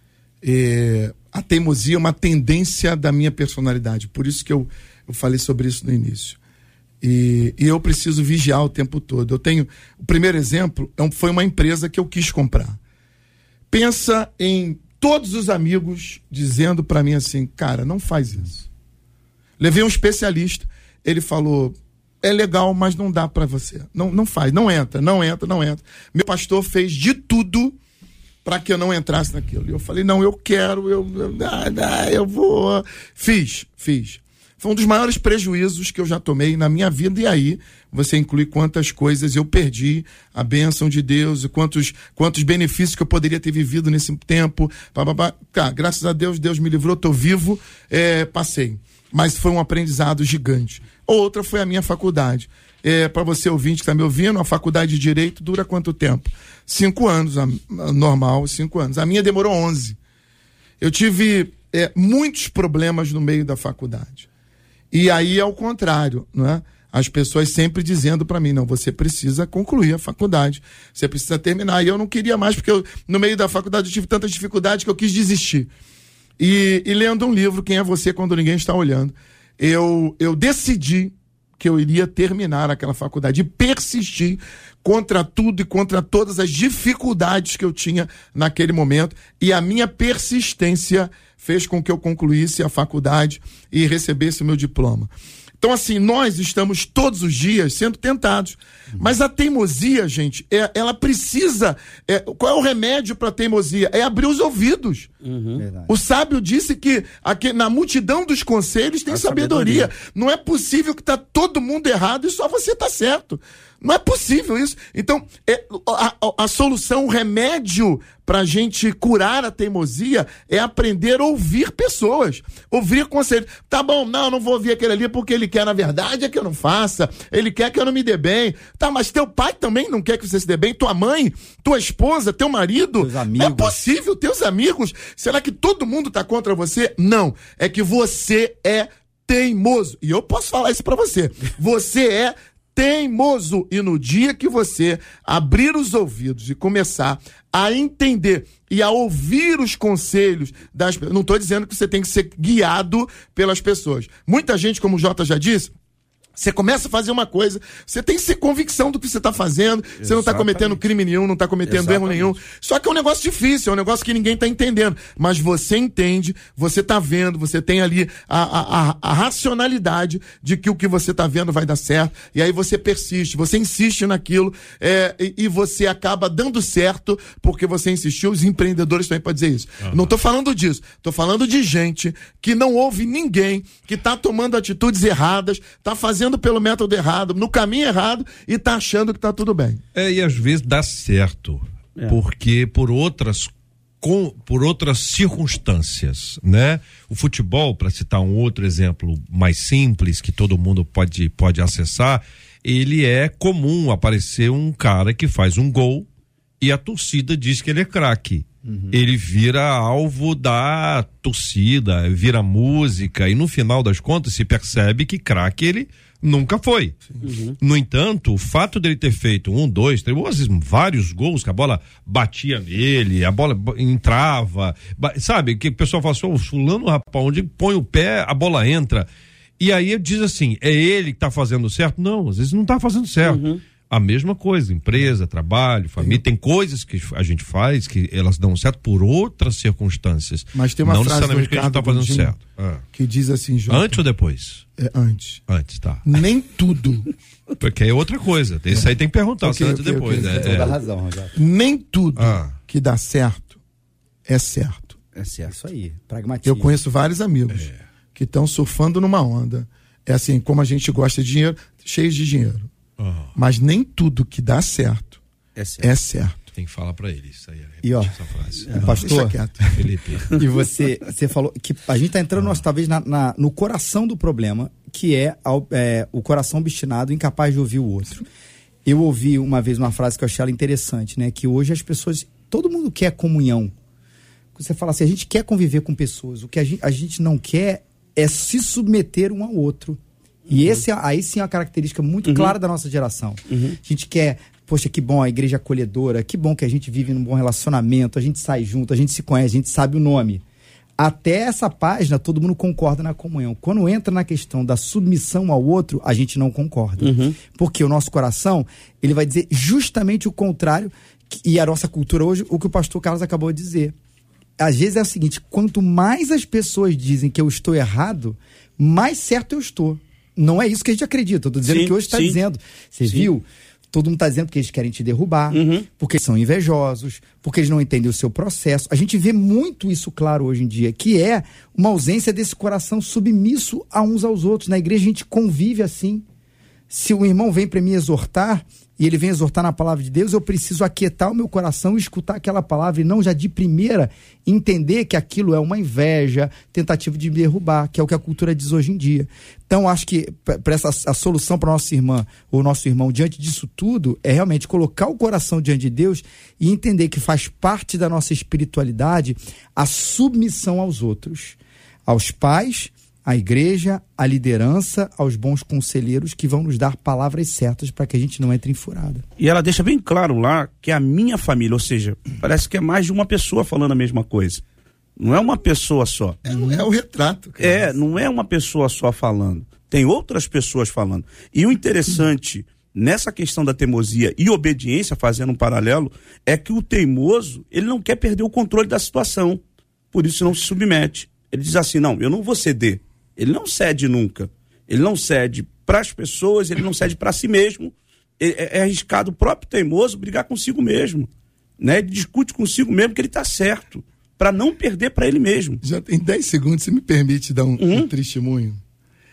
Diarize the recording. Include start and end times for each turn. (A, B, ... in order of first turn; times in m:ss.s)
0:00.4-0:06.4 A
0:07.0-0:12.8 A
0:13.7-0:18.7 A
0:19.6-0:27.8 A
0:28.4-1:00.0 A
1:00.8-1:04.3 A
1:04.9-1:15.7 A
1:16.4-1:45.1 A
1:45.2-1:45.6 B
1:45.6-1:45.9 C
1:45.9-2:35.7 A
1:49.1-1:49.9 B
2:13.0-2:13.8 C
2:36.4-3:09.8 A
2:40.0-2:40.8 B
2:41.6-2:42.4 B
3:09.9-3:26.1 D
3:26.6-3:49.1 D
3:28.7-3:28.9 C
3:37.2-3:37.6 B
3:49.6-4:02.8 D
3:53.2-3:53.6 B
4:00.5-4:02.3 A
4:02.9-4:04.0 A
4:03.7-4:04.6 D
4:04.8-4:05.4 A
4:05.5-4:06.1 D
4:06.0-4:07.1 A
4:07.6-4:10.7 D
4:09.4-4:10.8 A
4:10.2-4:11.3 C
4:11.3-4:13.6 A
4:12.2-4:12.6 D
4:14.2-4:15.0 A
4:15.1-4:15.6 B
4:15.4-4:16.8 C
4:16.4-4:22.7 A
4:23.0-4:23.3 D
4:23.3-4:25.2 A
4:25.6-4:25.9 B
4:25.8-4:26.4 A
4:26.6-4:29.0 D
4:27.8-4:28.2 C
4:28.7-4:29.4 C
4:28.7-4:29.8 A
4:29.7-4:30.3 D
4:30.4-4:38.2 C
4:38.8-4:43.7 C
4:44.6-5:00.4 C
4:50.5-4:50.8 B
4:52.2-4:52.5 B
4:53.5-4:53.8 B
5:01.0-5:13.9 C
5:07.0-5:07.4 B
5:14.6-5:36.2 C
5:21.6-5:22.4 B
5:25.5-5:25.9 B
5:36.9-6:09.2 C
6:09.4-6:14.6 B
6:15.2-6:16.8 B
6:16.4-6:18.0 A
6:17.6-6:41.3 B
6:41.8-6:45.8 B
6:45.8-6:48.8 A
6:47.8-6:48.1 B